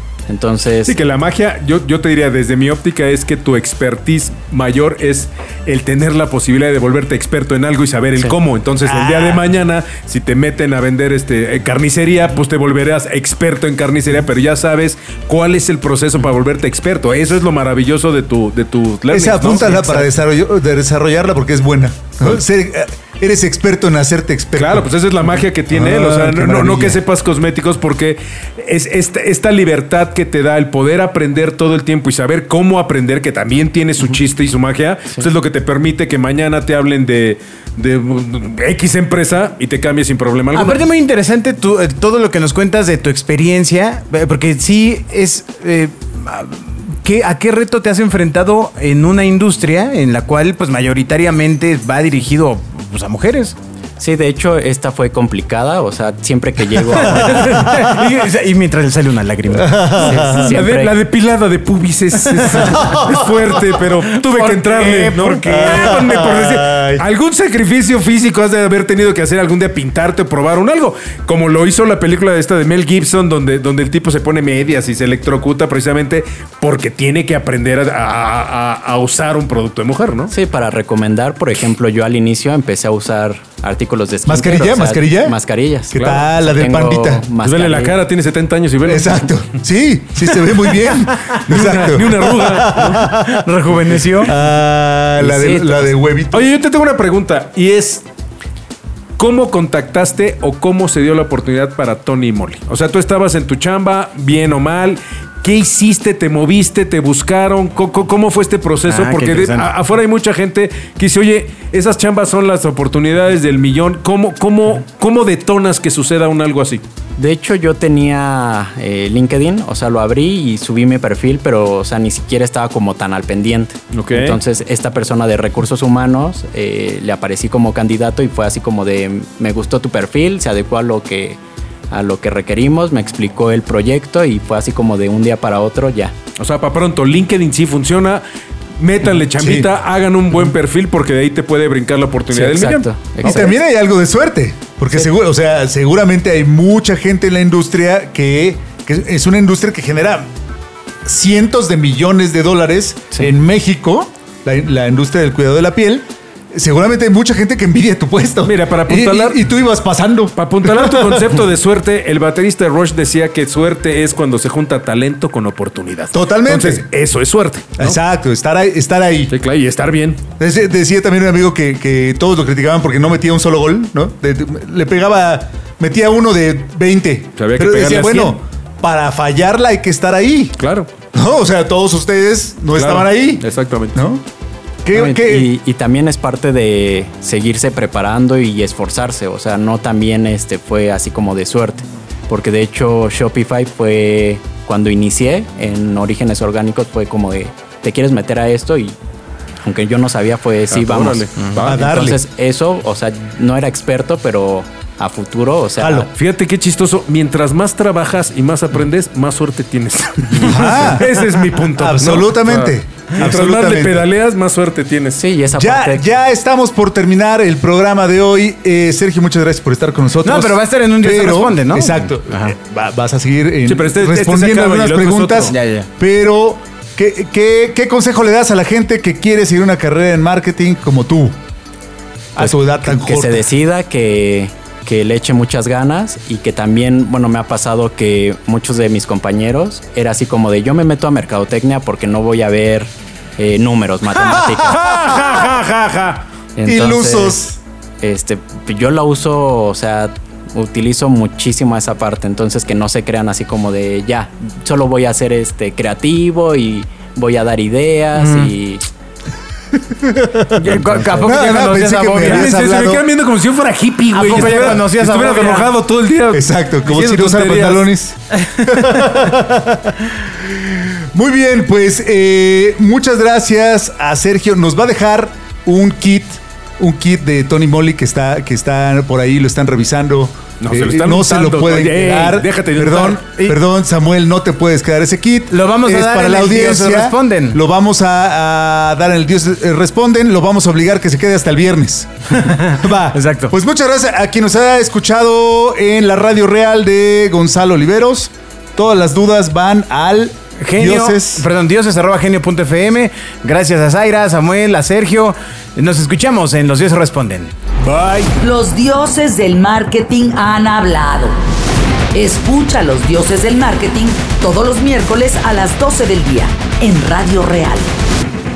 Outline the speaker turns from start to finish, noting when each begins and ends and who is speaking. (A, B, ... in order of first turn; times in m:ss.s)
0:00.3-0:01.0 A
0:00.8-0:20.1 B
0:08.8-0:09.4 C
0:19.1-0:24.9 C
0:24.5-0:40.8 B
0:25.7-0:27.0 C
0:40.5-0:53.6 D
0:54.0-0:57.6 A
0:57.0-0:59.8 D
0:59.5-1:00.6 C
1:00.0-1:01.0 A
1:00.4-1:20.3 B
1:02.4-1:03.8 C
1:02.5-1:03.0 D
1:04.2-1:06.0 D
1:05.4-1:07.0 C
1:20.3-1:27.9 A
1:24.2-1:25.4 C
1:25.9-1:27.2 C
1:25.9-1:26.3 B
1:27.4-1:29.4 B
1:28.8-1:33.4 C
1:31.3-1:33.1 B
1:33.1-1:34.3 D
1:34.2-1:36.5 C
1:35.2-1:35.6 D
1:36.3-1:38.0 B
1:39.2-1:56.8 B
1:48.9-1:49.7 D
1:57.2-2:11.4 A
2:03.9-2:04.4 B
2:11.9-2:16.1 A
2:16.4-2:18.2 B
2:18.8-2:23.4 B
2:19.3-2:19.7 C
2:22.3-2:23.6 A
2:23.2-2:30.3 C
2:31.0-2:41.3 C
2:38.4-2:39.4 B
2:40.3-2:48.0 B
2:46.1-2:46.9 C
2:47.8-2:49.3 C
2:49.3-2:50.2 B
2:50.4-3:00.6 C
2:57.4-2:58.4 B
3:00.6-3:00.9 B
3:01.1-3:04.2 C
3:02.7-3:04.0 B
3:04.8-3:05.5 C
3:04.9-3:19.0 A
3:19.6-3:26.1 A
3:20.7-3:22.1 B
3:21.6-3:22.2 C
3:25.8-3:26.1 C
3:26.1-3:35.2 B
3:30.4-3:34.1 C
3:35.2-3:36.0 A
3:35.6-3:51.4 C
3:40.2-3:42.5 D
3:43.6-3:45.5 B
3:45.5-3:45.9 D
3:52.3-3:53.5 C
3:52.4-4:04.9 A
4:04.6-4:06.2 B
4:04.9-4:05.4 C
4:06.6-4:07.4 A
4:06.6-4:07.6 C
4:08.0-4:18.8 A
4:19.8-4:23.0 C
4:20.5-4:22.8 D
4:22.2-4:27.9 B
4:24.1-4:25.7 D
4:26.3-5:01.5 C
4:40.6-4:43.2 B
4:45.5-4:47.6 D
4:52.3-4:53.5 D
5:00.6-5:07.5 D
5:07.8-5:08.3 C
5:08.4-5:11.4 E
5:12.1-5:17.9 E